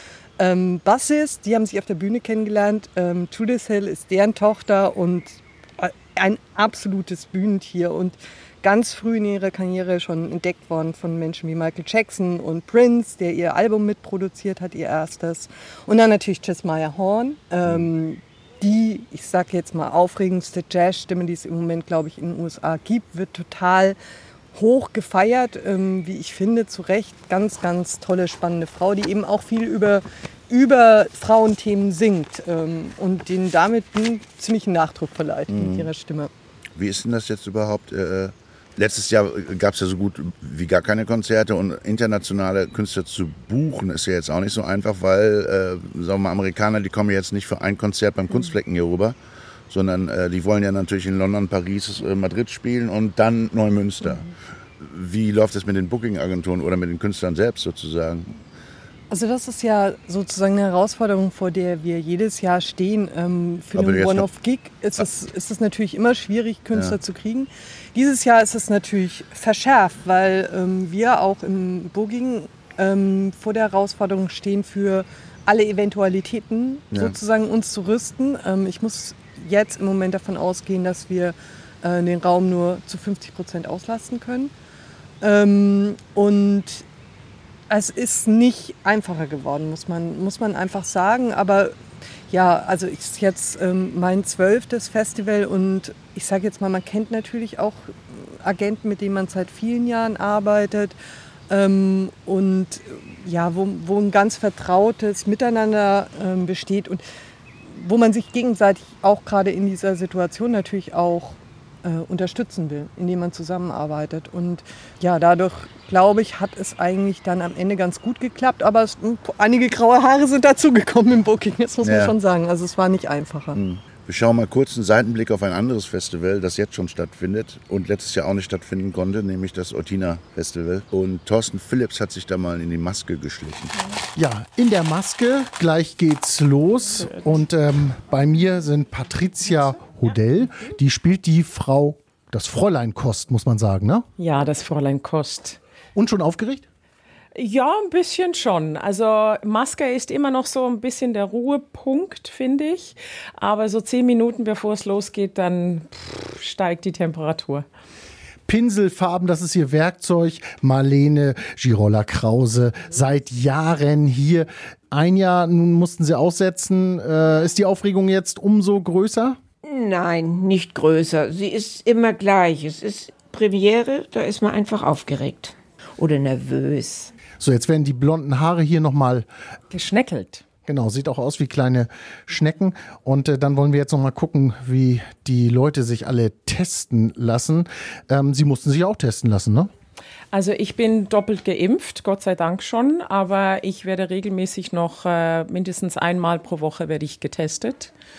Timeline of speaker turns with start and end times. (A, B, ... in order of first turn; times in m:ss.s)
0:00.4-0:24.0 A
0:24.5-0:36.3 A
0:35.5-0:35.9 B
0:36.8-0:49.2 B
0:49.7-0:54.2 B
0:54.0-0:54.3 A
0:54.8-0:58.3 B
0:59.1-1:24.5 A
1:03.7-1:04.2 B
1:25.2-1:26.8 A
1:27.7-1:31.7 A
1:32.3-1:41.0 A
1:41.5-1:47.0 A
1:47.7-2:03.6 A
2:01.8-2:02.1 B
2:03.5-2:13.7 B
2:14.2-2:24.1 C
2:17.0-2:17.4 D
2:24.2-2:25.6 D
2:25.9-2:26.6 C
2:27.3-2:37.6 D
2:38.5-2:49.4 C
2:49.6-2:57.1 E
2:57.4-2:59.3 C
2:59.7-3:00.4 D
3:00.6-3:09.7 C
3:10.3-3:17.9 D